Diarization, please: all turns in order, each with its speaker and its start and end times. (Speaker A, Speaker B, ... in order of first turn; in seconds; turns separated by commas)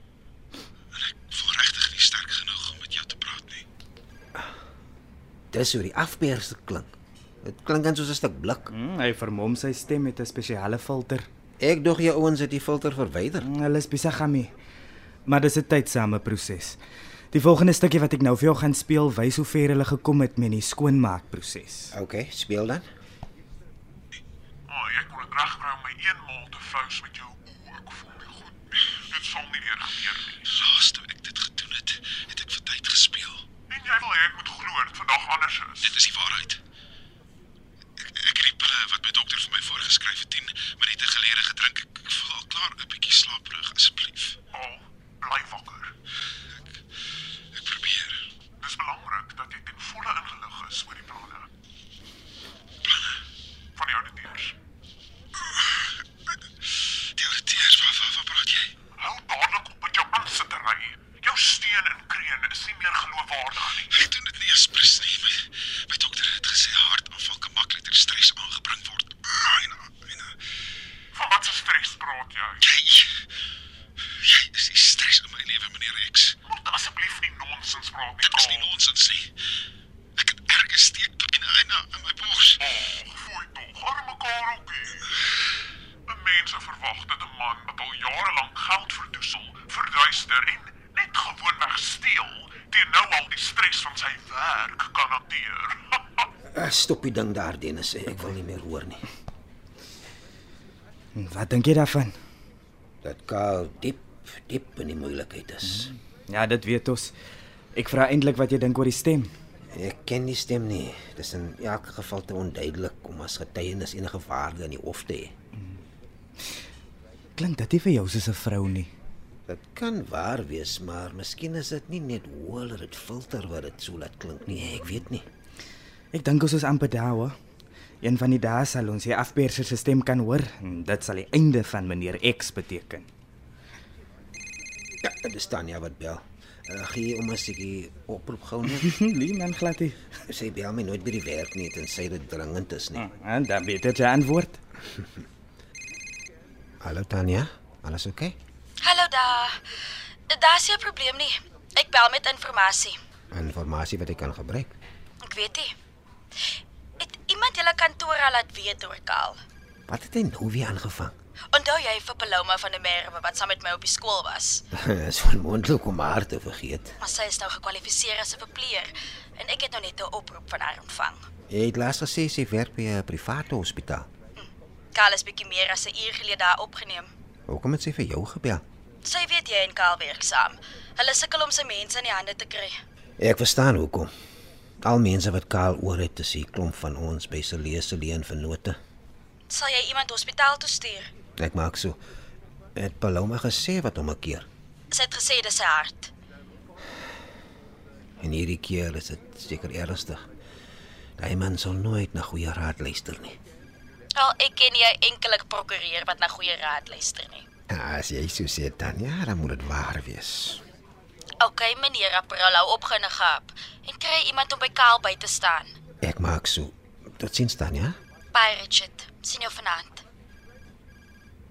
Speaker A: 2.3-3.2, Speaker B: 5.5-6.9, Speaker B: 7.4-8.7, Speaker C: 8.7-11.2, Speaker B: 11.6-13.5, Speaker C: 13.4-14.5, Speaker C: 15.2-16.8, Speaker C: 17.3-21.9, Speaker B: 21.9-22.9, Speaker D: 24.7-30.5, Speaker A: 30.7-32.7, Speaker D: 33.7-36.0, Speaker A: 36.0-36.6, Speaker A: 38.1-44.3, Speaker B: 43.5-43.7, Speaker D: 44.5-45.9, Speaker A: 47.6-48.0, Speaker D: 48.6-51.5, Speaker D: 53.8-54.5, Speaker D: 58.9-64.1, Speaker A: 64.1-64.8, Speaker D: 68.2-68.5, Speaker D: 71.1-72.7, Speaker D: 76.4-78.8, Speaker A: 82.0-82.5, Speaker D: 82.5-85.4, Speaker D: 86.1-96.2, Speaker B: 96.5-99.0, Speaker C: 101.1-102.2, Speaker B: 103.0-105.9, Speaker C: 106.3-107.1, Speaker C: 107.7-109.3, Speaker B: 109.7-115.3, Speaker C: 117.3-118.9, Speaker B: 119.5-125.2, Speaker C: 126.1-127.3, Speaker C: 128.0-133.1, Speaker B: 135.0-138.9, Speaker C: 138.7-140.0, Speaker B: 140.3-143.1, Speaker C: 142.9-144.6, Speaker B: 146.8-148.3, Speaker E: 148.8-149.6, Speaker E: 150.3-153.0, Speaker B: 153.3-154.7, Speaker E: 155.2-155.7, Speaker E: 157.0-159.4, Speaker B: 159.9-161.1, Speaker E: 161.5-164.6, Speaker B: 164.7-166.9, Speaker E: 167.0-171.2, Speaker B: 171.5-174.1, Speaker E: 174.4-177.1, Speaker B: 177.5-178.6, Speaker E: 179.0-182.8, Speaker B: 183.2-184.1, Speaker B: 184.8-188.8, Speaker E: 189.5-191.1, Speaker B: 191.4-192.0, Speaker B: 192.8-194.4, Speaker E: 194.9-196.1, Speaker B: 198.2-200.2, Speaker B: 201.2-203.4, Speaker E: 204.2-207.4, Speaker B: 207.7-210.6, Speaker E: 211.4-215.7, Speaker B: 216.0-217.9, Speaker E: 218.3-220.0